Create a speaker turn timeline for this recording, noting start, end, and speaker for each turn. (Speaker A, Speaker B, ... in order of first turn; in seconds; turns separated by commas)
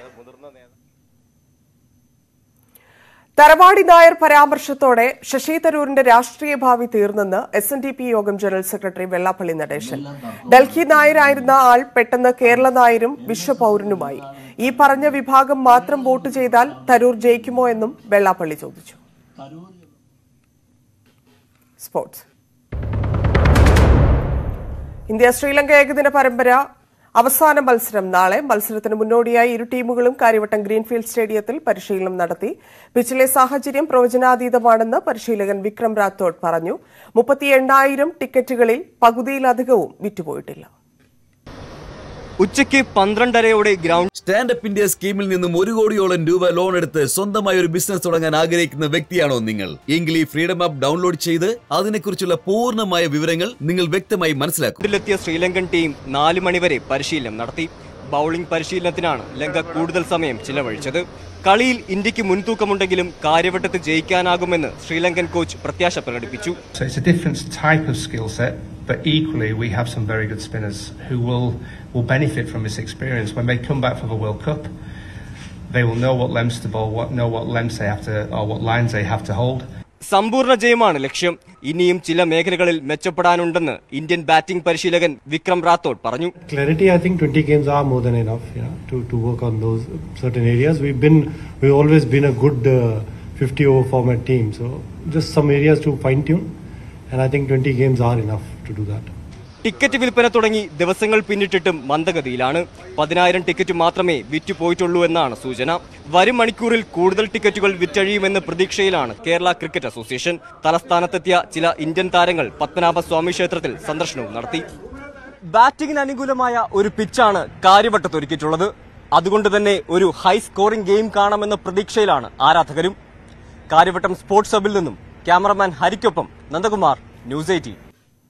Speaker A: 3.4-19.0, Speaker A: 21.8-22.2, Speaker A: 25.1-26.6, Speaker A: 27.2-40.7, Speaker B: 42.4-44.1, Speaker C: 44.2-54.8, Speaker B: 54.8-66.6, Speaker D: 66.8-74.7, Speaker D: 75.7-79.7, Speaker B: 80.1-86.3, Speaker E: 86.4-96.5, Speaker E: 97.1-99.1, Speaker B: 99.6-114.7, Speaker B: 115.5-123.0, Speaker B: 123.7-127.8